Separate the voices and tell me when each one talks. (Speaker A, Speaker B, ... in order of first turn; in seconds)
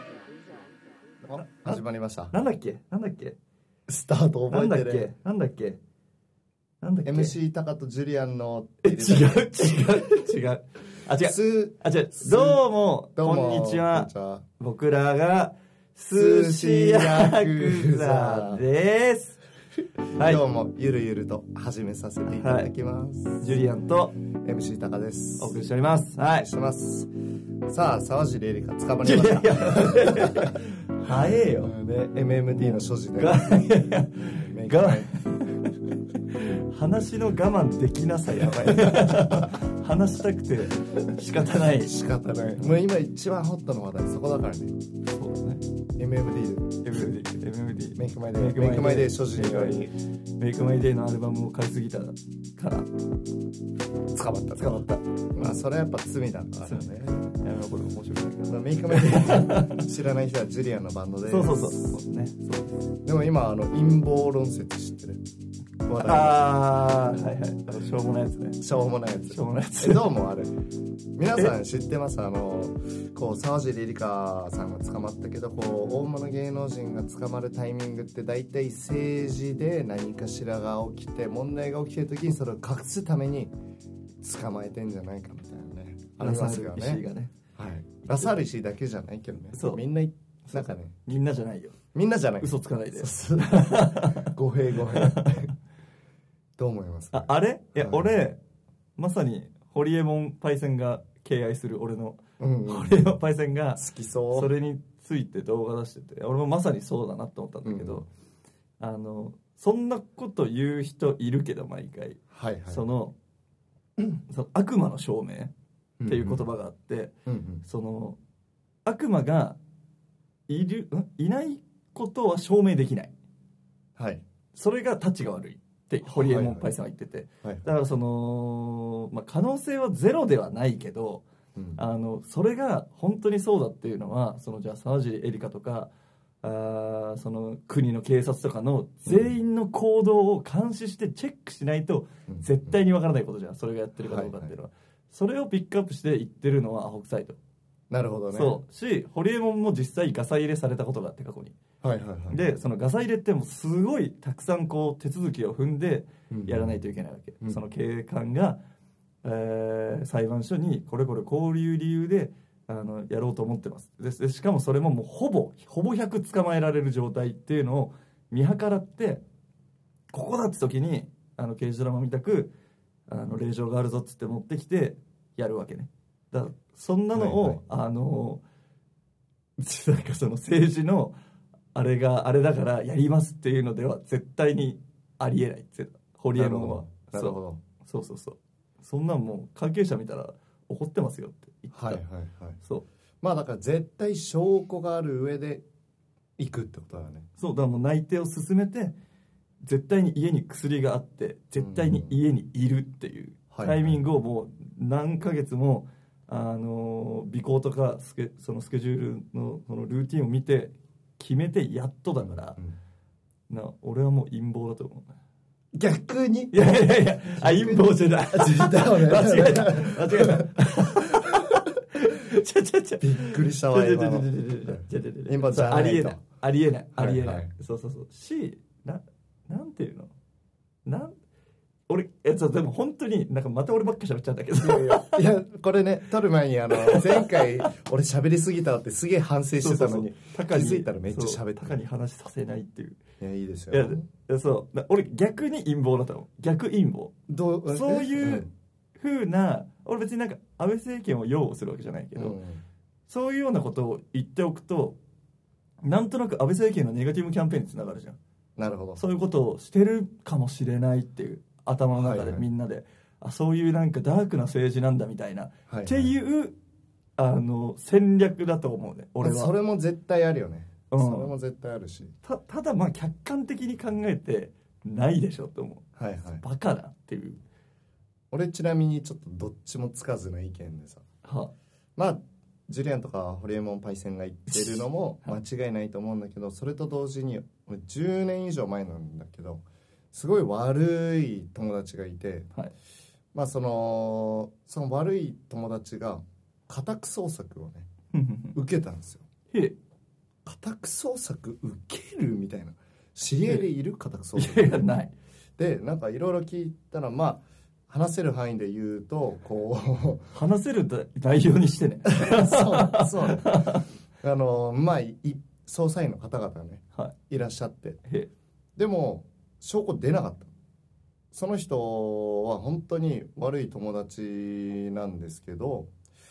Speaker A: 1.2-2.3, 3.9-5.1, 7.0-9.8, 11.2-14.4, 16.1-18.6, 20.1-23.6, 24.4-25.6, 26.3-27.1, 27.7-30.6, 31.6-33.6, 34.3-35.4, 38.3-39.5, 41.6-44.7, 46.0-46.9, 48.0-49.9, 54.1-57.2, 58.5-62.0, 63.0-65.2, 65.8-66.5, 68.6-70.5, 71.2-83.5, 84.2-87.0, 87.6-91.0, 91.9-95.5, 96.6-98.2, 102.4-103.2, 103.7-104.5, 107.6-108.0, 112.3-112.8, 116.0-116.5, 117.3-117.6, 124.0-124.2, 126.0-126.7, 131.5-131.8, 139.1-139.3, 142.3-142.8, 144.0-144.5, 147.9-148.6, 151.8-152.4, 156.3-156.8, 177.1-177.6, 186.3-187.6, 191.7-192.6, 193.2-195.6, 196.4-197.3, 201.6-202.2, 203.5-204.0, 215.7-221.6, 223.0-226.2, 227.0-227.5, 234.6-241.8, 243.2-244.0, 247.3-248.5, 252.1-252.6, 258.6-259.0, 261.9-262.5, 265.7-266.1, 269.2-272.1, 276.0-276.4, 278.3-281.0, 281.9-292.5, 293.3-297.9, 298.5-299.2, 300.4-304.9, 305.6-310.3, 312.0-318.0, 318.8-320.5, 321.3-325.9
Speaker B: 1.4-3.4, 4.5-5.8, 6.8-7.3, 8.8-19.4, 20.1-20.4, 22.3-22.7, 23.4-24.1, 25.4-26.5, 29.0-31.7, 32.5-42.0, 45.0-45.6, 46.8-52.9, 54.6-55.6, 56.6-59.8, 61.3-62.9, 66.0-68.7, 69.2-70.1, 86.2-87.3, 89.5-89.8, 90.5-91.8, 92.4-95.4, 97.1-98.4, 99.0-108.1, 108.8-113.1, 114.0-115.5, 116.0-118.2, 118.8-119.6, 120.5-123.1, 124.5-147.4, 148.3-151.6, 152.3-158.6, 159.2-169.2, 170.1-172.5, 173.1-178.4, 179.6-181.1, 181.7-192.0, 192.6-192.8, 197.4-198.9, 199.6-212.6, 213.5-215.1, 216.5-230.1, 230.8-231.1, 231.9-235.3, 236.7-237.7, 239.6-243.0, 243.7-247.1, 247.7-252.4, 253.1-255.0, 255.8-258.2, 258.9-266.6, 267.2-269.5, 270.9-271.3, 272.2-275.9, 276.4-277.4, 281.2-281.5, 284.5-285.4, 298.1-298.6, 299.5-299.8, 304.3-305.1, 310.3-313.9